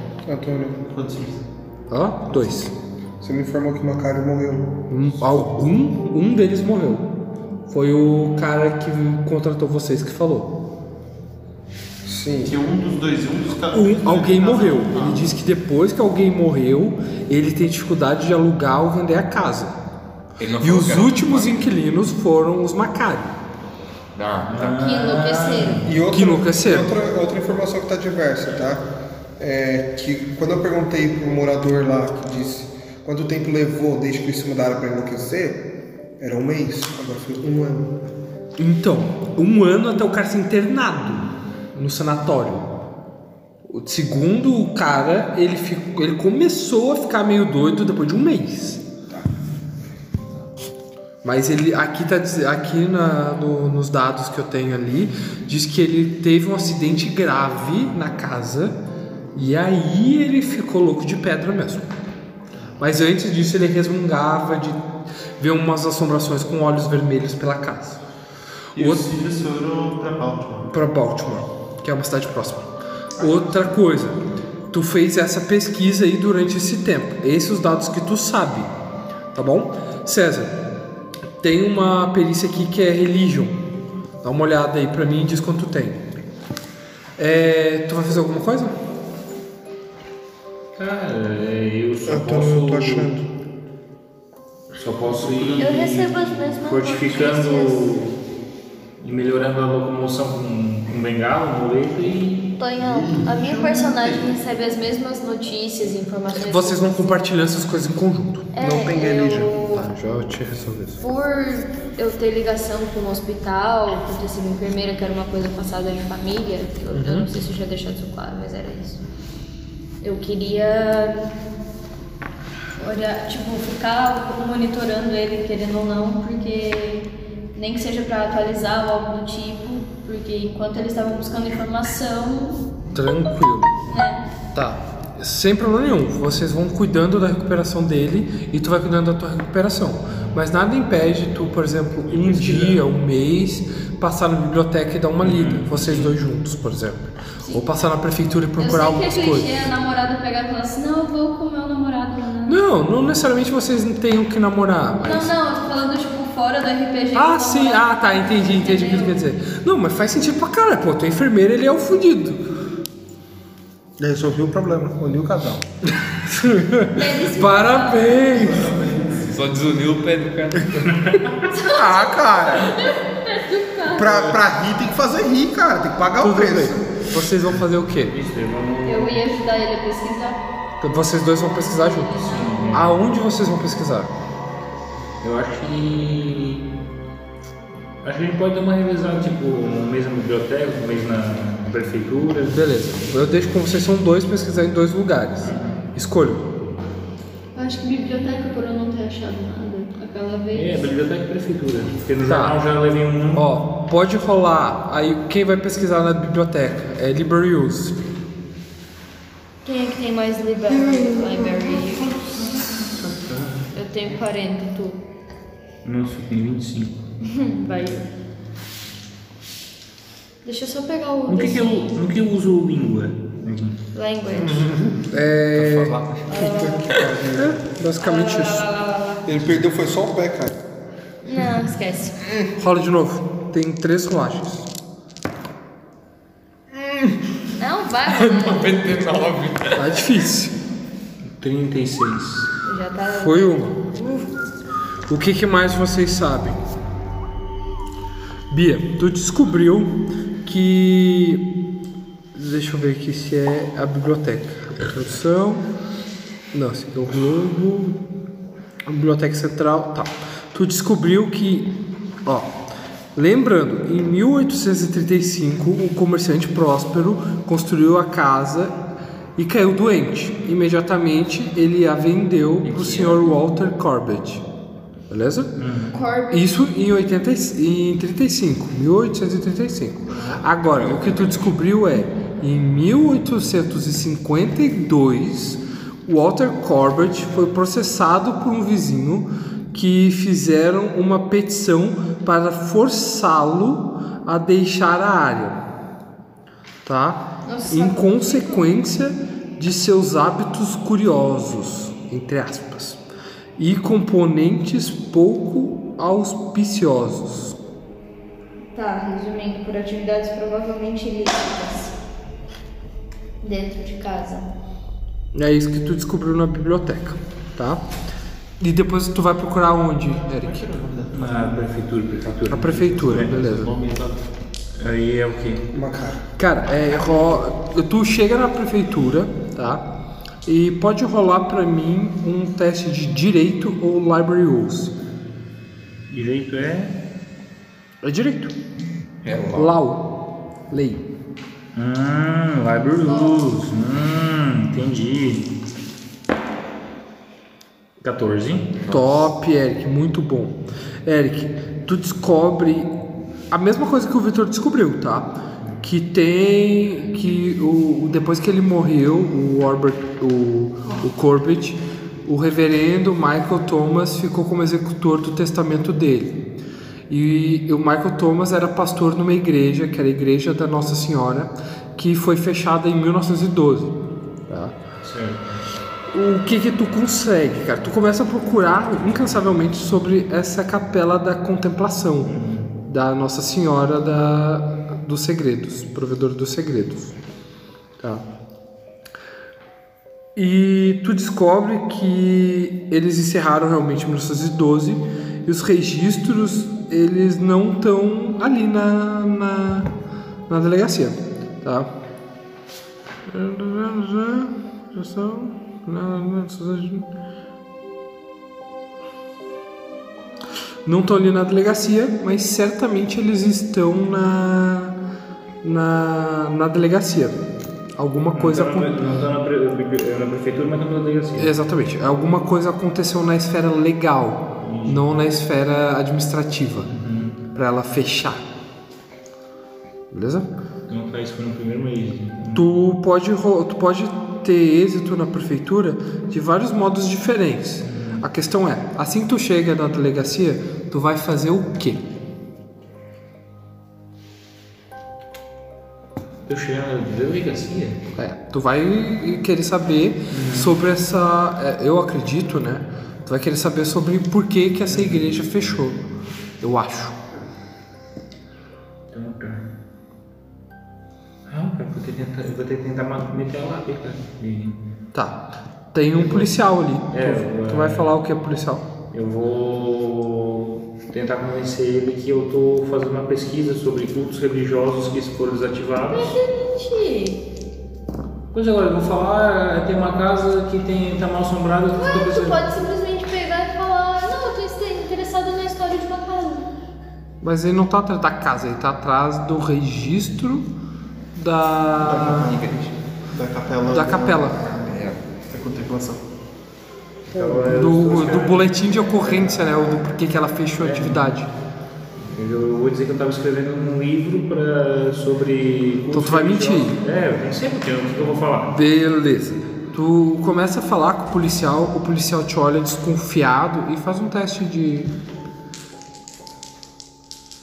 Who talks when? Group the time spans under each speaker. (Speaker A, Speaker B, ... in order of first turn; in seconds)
Speaker A: 0.2-0.8, 3.2-4.7, 12.1-12.6, 25.8-28.9, 29.4-35.6, 36.2-38.0, 92.1-93.2, 108.6-109.5, 164.0-165.6, 171.6-172.7, 173.9-176.8, 224.4-225.1, 226.4-227.5, 229.2-230.6, 325.7-326.2
Speaker B: 0.8-1.4, 12.4-15.3, 68.8-70.7, 95.1-95.7, 102.8-104.3, 168.4-169.2, 210.8-213.7, 280.1-280.4, 320.2-321.8, 322.8-324.2, 492.0-492.8, 493.3-495.0, 495.5-496.2
Speaker C: 1.9-2.7, 4.9-7.1, 7.7-10.6, 13.7-19.8, 20.6-23.4, 26.1-26.9, 38.6-42.7, 43.7-48.8, 51.2-58.8, 59.3-61.9, 62.8-64.8, 65.4-68.0, 68.8-69.1, 70.7-74.2, 74.7-78.7, 79.3-80.6, 81.4-83.6, 84.2-86.0, 87.2-88.8, 106.4-108.5, 109.7-111.0, 116.9-117.3, 132.9-133.7, 134.5-149.6, 152.4-155.3, 157.1-162.4, 165.8-168.8, 176.2-178.1, 180.8-184.1, 192.4-196.4, 202.2-202.6, 203.3-208.0, 225.1-226.0, 227.3-228.7, 232.6-234.7, 239.8-240.6, 243.1-243.8, 245.1-246.6, 248.5-251.5, 252.3-255.7, 256.5-258.0, 258.9-261.7, 262.2-262.5, 263.1-268.7, 269.4-274.4, 275.1-275.6, 276.3-295.6, 296.8-303.0, 303.6-307.6, 315.3-317.8, 318.6-320.7, 322.5-323.7, 326.4-329.9, 330.4-334.9, 338.0-338.5, 339.6-340.1, 340.7-341.1, 348.9-352.9, 353.5-366.4, 367.1-373.9, 374.5-374.8, 376.1-382.3, 382.9-387.1, 390.4-399.9, 400.5-401.9, 403.3-407.1, 410.8-414.9, 415.6-417.4, 418.0-418.9, 421.4-426.9, 427.5-428.4, 430.1-430.5, 432.6-442.0, 448.2-456.0, 456.6-457.2, 465.1-468.9, 487.4-490.7, 491.3-492.6, 493.9-494.6, 497.3-501.5, 506.1-507.0, 508.7-515.1
Speaker D: 20.4-21.6, 24.1-24.8, 169.1-171.1, 225.5-227.3, 238.1-239.9, 280.7-281.5, 339.2-339.7, 348.8-349.2, 492.3-492.9, 494.9-495.2
Speaker E: 24.5-25.9, 90.8-93.1, 94.8-98.2, 99.0-102.5, 142.1-142.8, 145.2-146.2, 178.1-179.2, 182.2-182.9, 185.2-186.7, 188.0-192.6, 195.4-195.8, 200.5-203.5, 215.8-217.1, 221.3-223.8, 241.2-242.5, 272.7-273.2, 275.6-275.9, 321.1-323.3, 324.8-325.7, 336.1-336.9, 341.7-345.5, 348.0-348.7, 375.0-375.5, 382.2-382.7, 418.3-421.5, 424.6-425.1, 426.9-427.4, 430.9-432.7, 437.8-438.3, 446.5-448.0, 450.3-450.7, 454.9-455.3, 459.1-459.7, 461.5-464.8, 466.2-466.5, 467.1-468.1, 469.1-476.3, 478.5-482.6, 497.3-499.4, 500.8-501.3, 502.2-508.7
Speaker F: 24.7-25.8, 95.6-97.9, 102.6-107.0, 108.5-109.9, 111.0-119.0, 120.0-121.3, 122.8-132.7, 133.9-134.2, 148.6-152.6, 155.0-159.2, 166.9-168.5, 171.5-174.3, 178.8-180.4, 181.0-182.8, 197.6-200.7, 209.7-212.1, 213.7-215.0, 217.2-218.1, 220.4-221.9, 223.9-224.7, 226.3-227.1, 228.0-229.2, 231.2-232.2, 237.6-238.9, 242.7-244.3, 275.9-276.5, 297.4-298.7, 308.7-311.9, 313.4-314.5, 476.1-477.4, 481.9-486.7